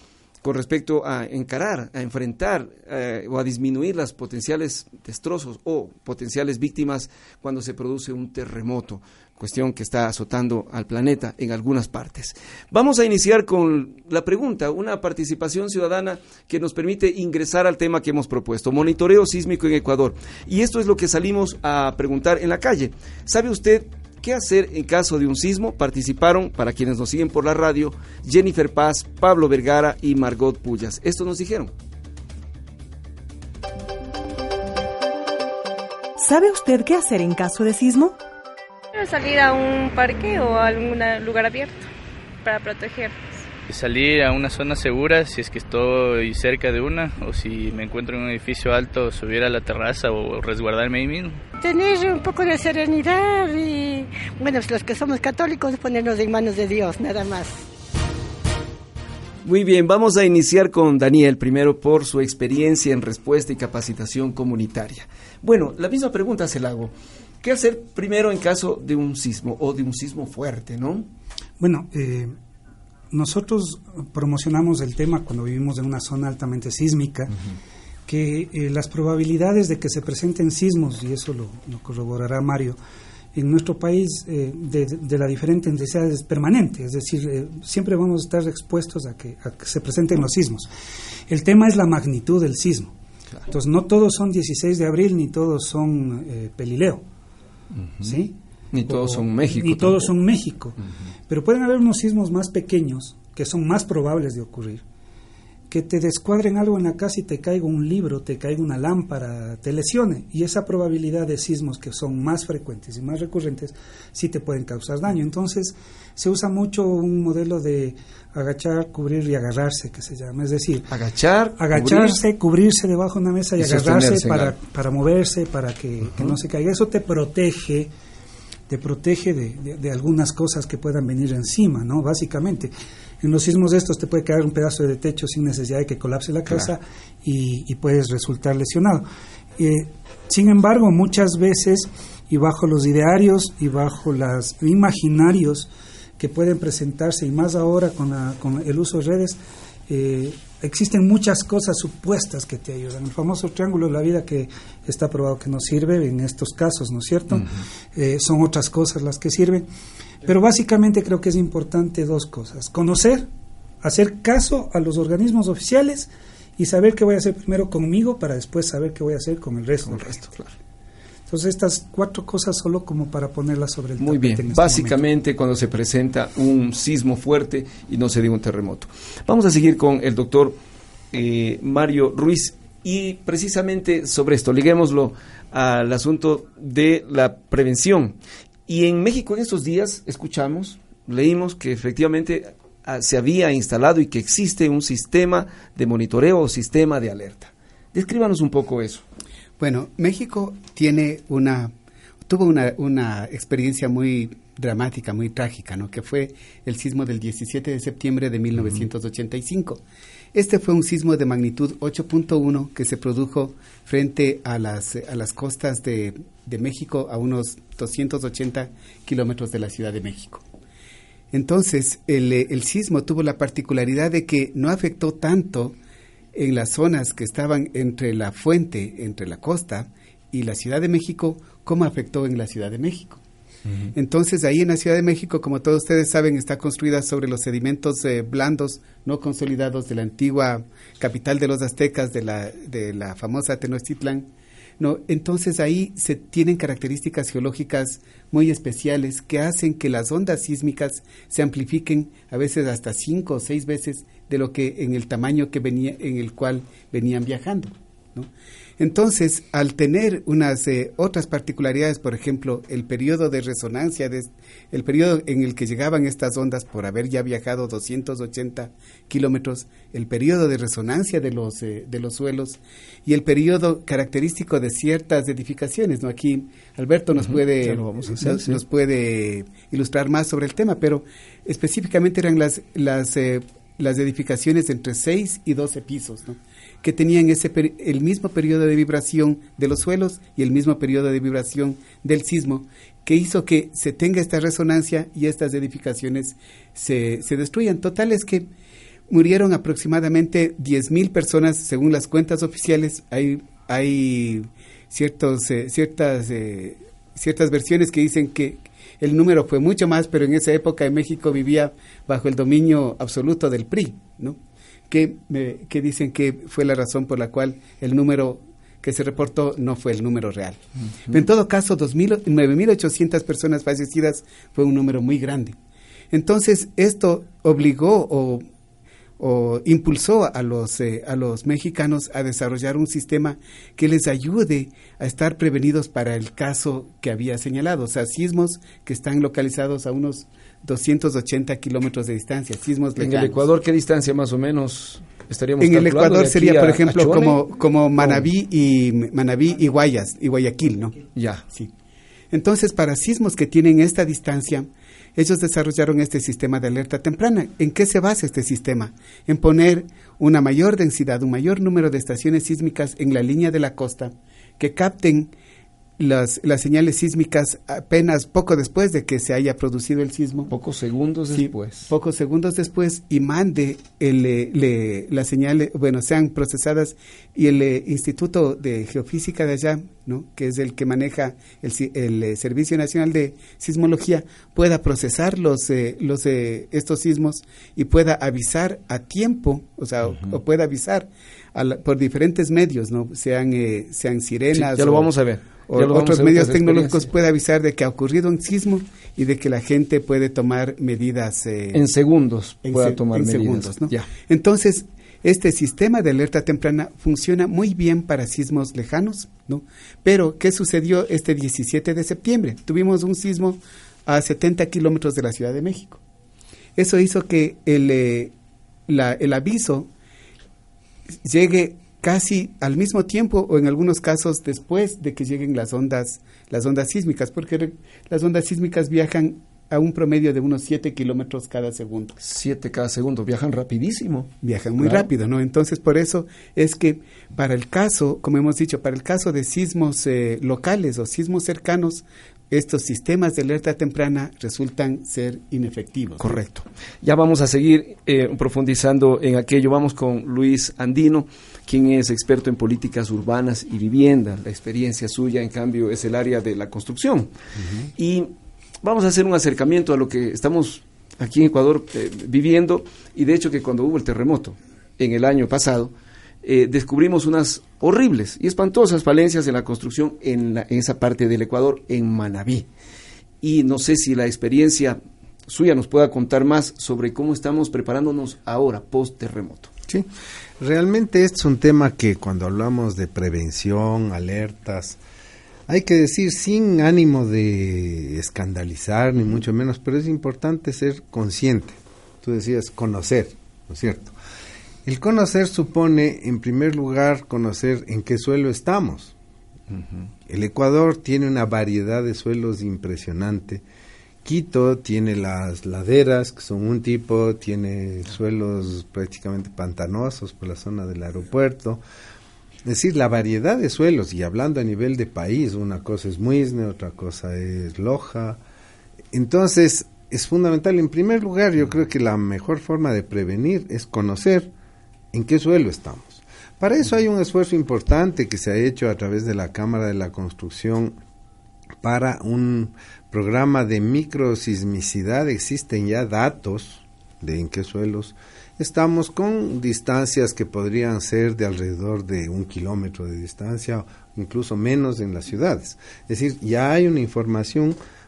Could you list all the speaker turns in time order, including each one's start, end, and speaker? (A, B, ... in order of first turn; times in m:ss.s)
0:00.4-0:31.7 A
0:36.2-0:38.2 B
0:39.0-0:41.7 C
0:42.4-0:43.1 C
0:43.7-0:51.4 D
0:51.6-0:57.6 E
0:59.4-1:11.1 A
1:11.6-1:12.3 F
1:13.1-1:17.3 F
1:18.1-1:22.8 F
1:23.3-1:30.7 F
1:31.3-1:32.9 F
1:33.5-1:37.0 F
1:37.7-1:40.1 A
1:38.0-1:38.3 F
1:38.9-1:40.8 F
1:41.3-1:44.8 F
1:45.7-2:00.9 F
2:00.9-2:02.2 A
2:01.6-2:07.9 F
2:03.6-2:04.6 A
2:08.7-2:19.1 F
2:19.6-2:39.7 F
2:40.2-2:43.3 F
2:43.8-2:50.2 F
2:49.9-2:50.5 A
2:51.3-2:55.0 F
2:54.0-3:00.6 A
3:01.1-3:08.2 A
3:08.7-3:19.0 A
3:19.6-3:21.7 G
3:22.2-3:29.8 G
3:28.6-3:28.8 A
3:30.3-3:40.4 G
3:41.3-3:45.8 G
3:46.3-3:53.2 G
3:54.0-4:04.3 G
4:04.8-4:58.5 G
4:37.2-4:38.6 A
4:59.1-5:14.4 G
5:14.9-5:20.6 G
5:20.8-5:21.2 A
5:21.1-5:25.6 G
5:26.1-5:28.4 G
5:29.2-5:43.5 G
5:43.0-5:47.4 A
5:45.6-5:51.7 G
5:48.0-5:48.3 A
5:51.1-5:51.4 A
5:52.3-6:05.3 G
6:06.0-6:10.5 G
6:10.5-6:11.9 A
6:11.3-6:35.1 G
6:34.5-6:37.1 A
6:35.6-6:41.8 G
6:41.7-6:44.1 A
6:42.6-6:56.0 G
6:56.8-6:58.3 G
6:58.9-6:59.9 G
7:01.2-7:12.2 G
7:12.2-7:15.1 A
7:14.4-7:26.4 G
7:26.2-7:37.3 A
7:37.6-7:37.9 H
7:38.0-7:38.3 A
7:38.8-7:52.7 A
7:53.4-7:59.7 A
8:00.6-8:05.0 H
8:05.7-8:14.2 H
8:14.8-8:19.1 H
8:20.3-8:23.6 H
8:24.2-8:31.8 H
8:32.6-8:38.4 H
8:39.1-8:44.5 H
8:45.1-8:51.0 H
8:51.8-9:07.8 H